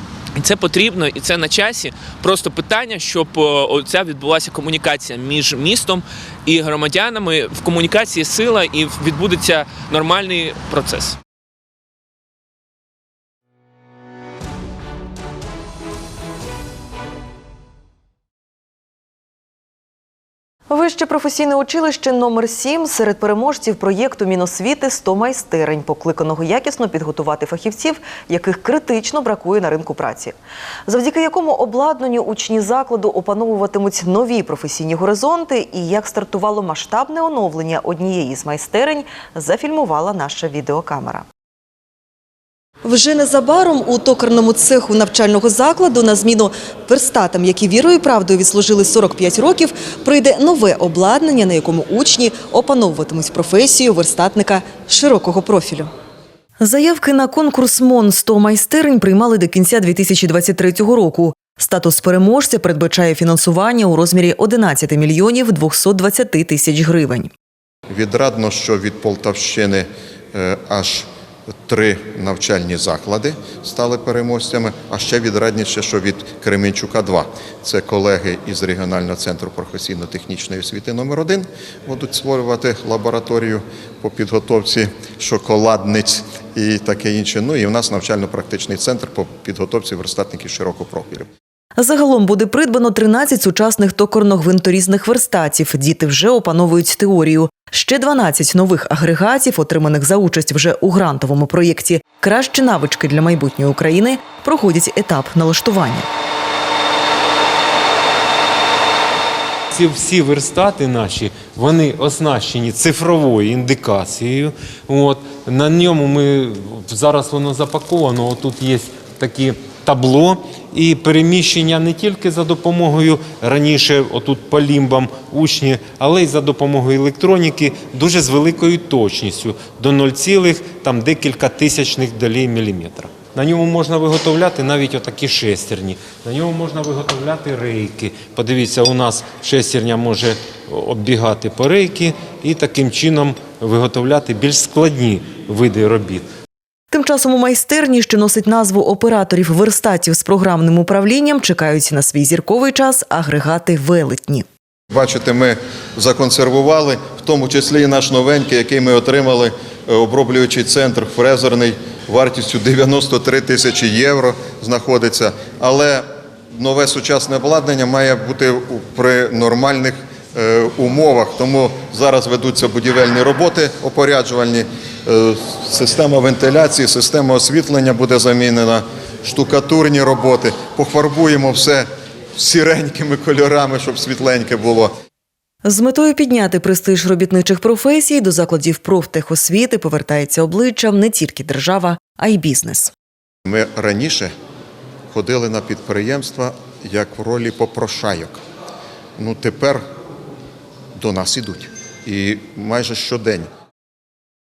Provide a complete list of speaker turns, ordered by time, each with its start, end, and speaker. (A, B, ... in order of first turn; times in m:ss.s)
0:00.4-0:11.2 A
0:20.7-0:30.4 B
0:30.9-0:41.3 B
0:42.8-0:55.9 B
0:56.6-1:07.3 B
1:07.9-1:11.1 C
1:11.7-1:31.3 C
1:31.8-1:46.1 B
1:49.7-2:26.3 D
2:26.9-2:34.5 B
2:34.9-2:46.0 C
2:46.6-3:04.9 C
3:05.6-3:12.9 B
3:13.5-3:14.3 C
3:15.1-3:18.4 C
3:19.2-3:19.8 C
3:21.0-3:23.5 C